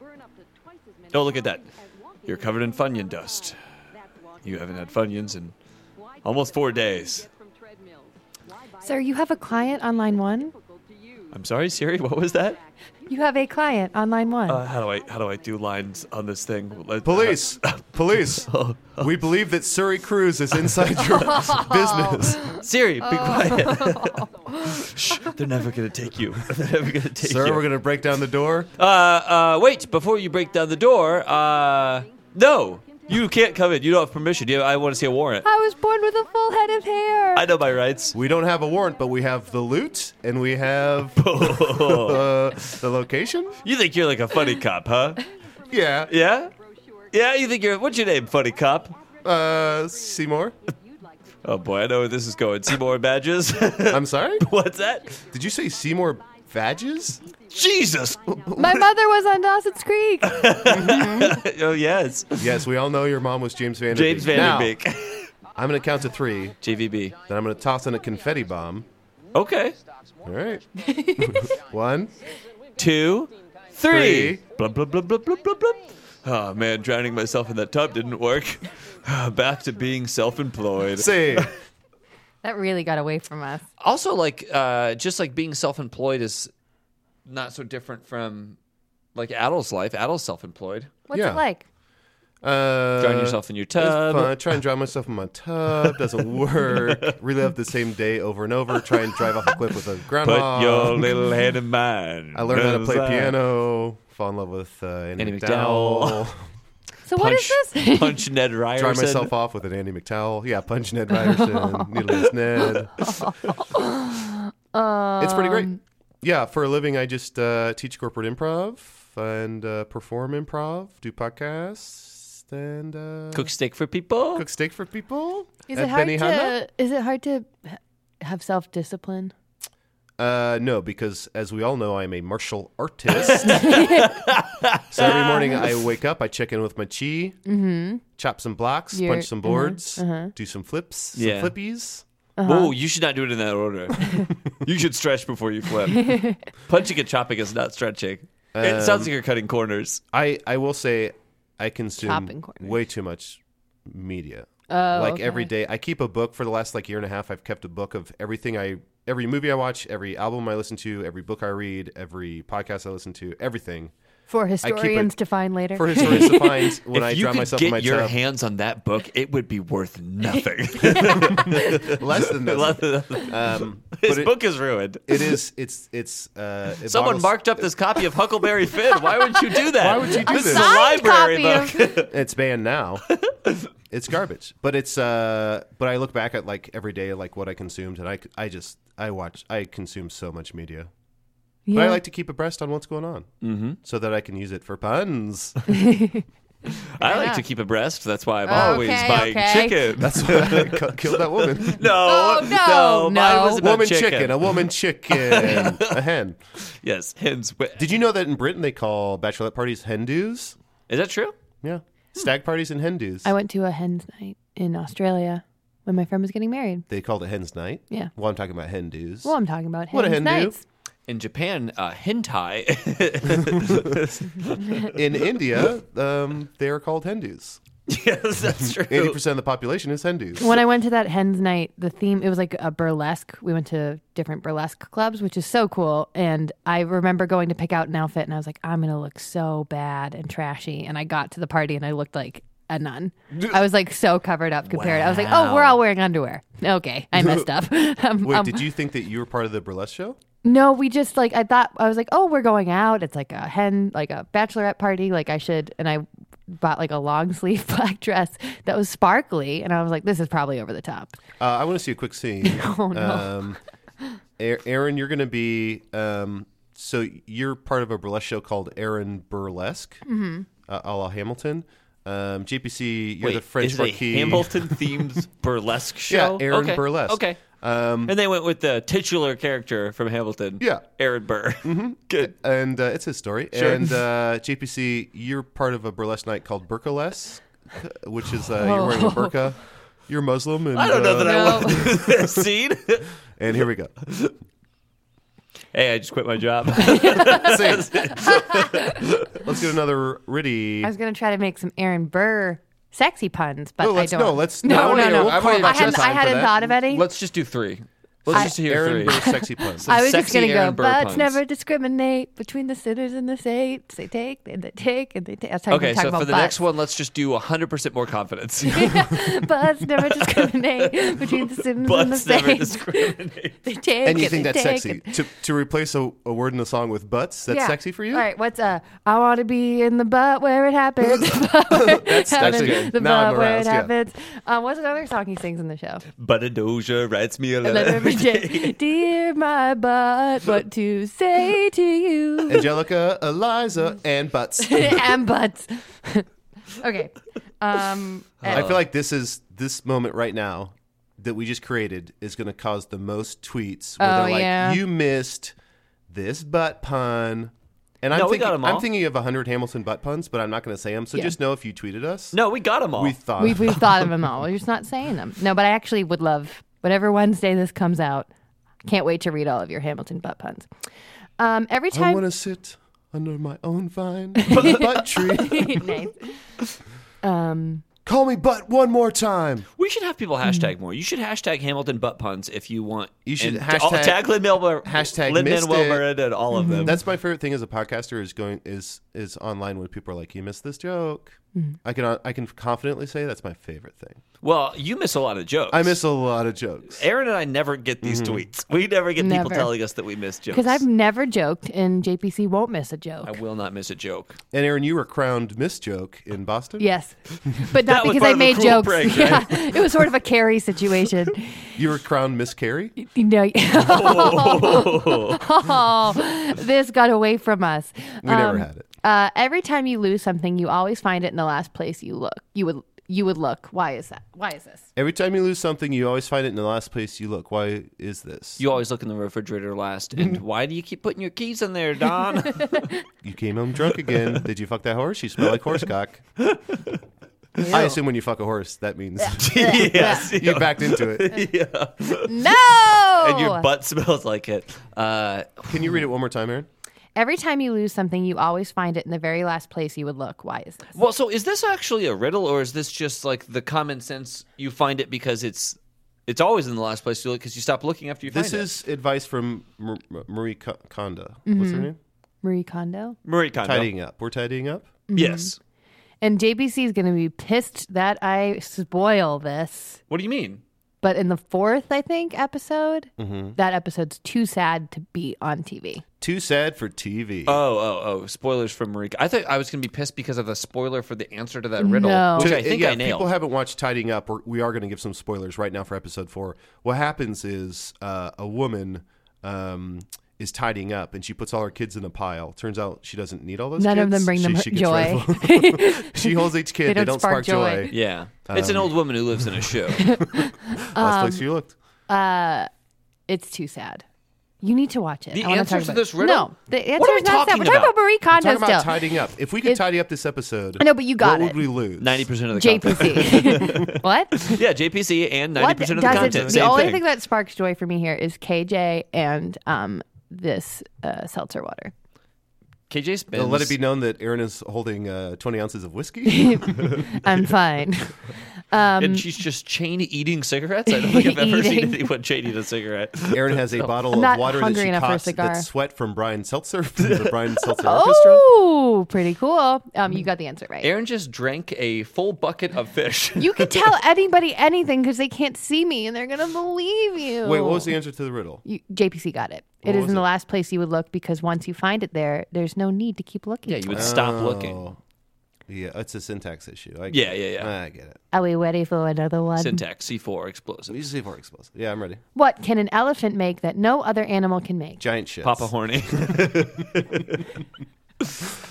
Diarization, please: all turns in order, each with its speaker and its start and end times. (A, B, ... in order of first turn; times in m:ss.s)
0:01.1-0:01.7 A
0:02.2-0:03.6 A
0:04.4-0:05.5 A
0:06.2-0:07.3 A
0:08.8-0:10.5 B
0:11.3-0:12.6 A
0:13.1-0:14.6 B
0:14.5-0:19.2 A
0:17.0-0:22.6 C
0:21.2-0:25.1 B
0:22.6-0:27.7 A
0:27.2-0:28.7 C
0:28.8-0:35.5 A
0:35.4-0:37.5 B
0:37.3-0:38.1 A
0:38.1-0:43.6 C
0:41.1-0:42.7 A
0:43.6-0:45.2 A
0:45.7-0:46.1 C
0:46.1-0:46.5 A
0:47.1-0:48.9 A
0:49.2-0:50.5 C
0:51.4-0:55.2 A
0:53.9-0:54.4 C
0:55.3-0:57.2 C
0:57.5-0:58.8 A
0:58.2-0:58.8 C
0:58.6-1:01.4 B
1:00.2-1:02.4 A
1:00.7-1:01.0 C
1:02.3-1:04.8 C
1:03.9-1:05.3 A
1:05.5-1:06.6 C
1:06.6-1:07.2 A
1:07.2-1:08.8 C
1:09.3-1:09.8 A
1:10.2-1:10.6 C
1:10.8-1:11.5 B
1:11.2-1:12.1 C
1:12.8-1:21.5 A
1:13.9-1:14.4 C
1:20.9-1:21.5 C
1:22.4-1:23.6 B
1:23.8-1:26.5 A
1:27.2-1:28.6 A
1:29.1-1:30.9 A
1:31.1-1:31.6 B
1:31.1-1:31.4 C
1:32.4-1:41.1 C
1:33.0-1:34.5 A
1:36.7-1:37.1 A
1:40.2-1:43.4 A
1:42.3-1:46.4 C
1:45.2-1:46.2 A
1:47.1-1:48.2 B
1:47.2-1:49.3 A
1:48.8-1:52.9 C
1:51.1-1:51.9 B
1:53.0-1:55.8 B
1:55.2-1:55.7 C
1:56.2-2:03.5 C
2:03.3-2:04.5 A
2:04.3-2:06.6 C
2:05.7-2:09.3 B
2:10.2-2:13.9 C
2:13.2-2:15.5 A
2:13.4-2:14.1 B
2:14.9-2:17.4 C
2:15.0-2:15.3 B
2:17.4-2:18.0 B
2:18.2-2:22.0 C
2:18.9-2:20.3 B
2:21.1-2:21.5 A
2:22.4-2:22.7 B
2:22.4-2:30.0 A
2:26.0-2:26.4 B
2:28.5-2:29.1 C
2:30.1-2:43.9 C
2:32.0-2:32.8 B
2:34.7-2:35.5 B
2:44.3-2:46.7 B
2:44.6-2:45.1 C
2:45.7-2:48.2 C
2:46.9-2:55.3 A
2:50.8-2:51.8 B
2:51.2-2:54.4 C
2:55.0-2:57.7 C
2:56.8-3:02.1 A
2:59.7-3:00.7 C
3:00.2-3:01.9 B
3:02.0-3:03.0 C
3:03.2-3:03.6 A
3:03.9-3:10.9 C
3:11.7-3:12.0 B
3:11.7-3:13.3 C
3:13.4-3:13.8 A
3:13.8-3:15.6 C
3:15.7-3:16.2 B
3:17.0-3:17.4 B
3:17.0-3:26.0 A
3:18.5-3:20.0 B
3:18.5-3:19.3 C
3:20.0-3:21.8 C
3:21.8-3:23.6 B
3:23.6-3:26.4 C
3:26.6-3:27.9 A
3:27.8-3:30.6 C
3:30.9-3:31.3 A
3:31.6-3:33.3 C
3:33.2-3:36.8 B
3:36.9-3:39.3 C
3:39.2-3:40.6 B
3:39.9-3:40.6 C
3:41.1-3:44.9 A
3:44.9-3:47.6 C
3:47.9-3:49.2 A
3:48.8-3:50.6 C
3:50.4-4:08.7 B
4:04.7-4:05.8 A
4:07.1-4:07.5 C
4:08.2-4:10.2 C
4:10.4-4:21.1 B
4:21.4-4:23.6 C
4:22.4-4:23.5 B
4:24.4-4:30.0 C
4:30.0-4:30.4 B
4:30.7-4:35.1 C
4:33.2-4:37.5 A
4:36.1-4:38.1 C
4:38.0-4:42.3 A
4:40.6-4:40.8 C
4:41.6-4:52.5 C
4:43.5-4:43.9 A
4:48.6-4:49.4 B
4:50.7-4:53.1 A
4:51.2-4:51.9 B
4:53.4-4:53.9 C
4:54.0-4:54.3 A
4:55.7-4:59.4 A
4:56.8-4:57.5 B
4:57.2-4:58.2 C
4:58.1-4:58.9 B
4:59.3-5:00.9 C
5:00.8-5:07.0 B
5:03.8-5:06.6 C
5:04.6-5:09.2 A
5:08.2-5:10.0 C
5:08.3-5:16.6 B
5:09.8-5:11.4 A
5:15.7-5:23.6 A
5:18.6-5:23.1 B
5:23.6-5:25.2 B
5:24.0-5:28.2 C
5:27.5-5:36.0 B
5:31.7-5:33.9 C
5:32.4-5:32.9 A
5:36.2-5:38.8 A
5:37.6-5:42.7 B
5:42.5-5:45.2 C
5:44.6-5:48.7 B
5:48.4-5:48.8 A
5:48.5-5:55.5 C
5:54.0-5:54.8 B
5:56.1-6:02.4 C
5:58.1-5:58.9 A
6:02.3-6:03.2 A
6:02.9-6:03.8 C
6:03.4-6:08.3 B
6:08.8-6:10.7 B
6:11.4-6:12.2 B
6:11.9-6:15.9 C
6:14.4-6:16.3 B
6:14.5-6:14.8 A
6:17.2-6:17.8 B
6:18.0-6:19.7 C
6:19.8-6:27.0 A
6:20.4-6:20.7 B
6:23.2-6:26.0 C
6:26.5-6:26.9 B
6:26.8-6:34.2 C
6:34.4-6:36.0 A
6:35.7-6:37.0 C
6:36.9-6:40.8 A
6:38.0-6:38.4 C
6:39.2-6:39.7 B
6:40.5-6:43.3 B
6:43.2-6:44.4 A
6:44.5-6:46.9 C
6:46.8-6:51.4 B
6:47.6-6:49.9 A
6:51.8-6:52.9 C
6:53.0-7:04.8 B
6:53.8-6:55.4 A
6:58.2-6:58.9 C
7:04.9-7:08.6 C
7:08.6-7:12.9 A
7:12.5-7:12.9 B
7:13.2-7:16.2 C
7:14.1-7:14.4 A
7:16.4-7:17.0 A
7:17.6-7:18.0 B
7:17.7-7:21.4 C
7:19.2-7:20.3 B
7:19.4-7:22.5 A
7:22.2-7:23.7 B
7:23.1-7:26.0 A
7:25.7-7:26.7 C
7:27.1-7:30.9 B
7:30.9-7:38.7 A
7:38.3-7:42.0 C
7:41.4-7:41.9 B
7:42.4-7:43.2 B
7:43.2-7:43.9 A
7:43.6-7:44.9 C
7:45.1-7:45.5 B
7:45.1-7:45.6 A
7:46.2-7:50.0 B
7:50.1-7:50.6 A
7:51.0-7:56.0 B
7:53.2-7:53.6 C
7:56.2-7:57.6 C
7:57.4-8:03.3 A
8:01.8-8:02.5 B
8:02.4-8:19.5 C
8:13.8-8:17.9 B
8:17.9-8:20.1 A
8:20.0-8:21.5 B
8:20.3-8:21.7 C
8:22.1-8:22.7 B
8:23.3-8:24.0 B
8:24.6-8:28.9 B
8:25.3-8:27.9 A
8:28.3-8:32.3 C
8:30.8-8:31.6 B
8:32.0-8:37.0 A
8:32.5-8:34.6 B
8:35.6-8:41.9 B
8:36.0-8:36.9 C
8:42.9-8:43.8 A
8:43.3-8:46.9 C
8:46.2-8:49.2 B
8:49.0-8:54.0 A
8:50.9-8:52.0 B
8:53.3-8:58.4 C
8:54.1-8:55.7 B
8:57.0-8:57.7 A
8:57.8-9:00.9 B
9:00.8-9:04.0 A
9:03.4-9:07.9 B
9:07.4-9:08.6 C
9:08.6-9:14.2 B
9:09.8-9:10.2 C
9:13.6-9:14.8 A
9:13.9-9:15.0 C
9:15.7-9:18.2 C
9:17.1-9:17.7 A
9:18.3-9:19.8 B
9:19.6-9:21.0 A
9:20.9-9:22.2 C
9:22.3-9:25.0 B
9:25.0-9:26.6 C
9:25.4-9:27.4 A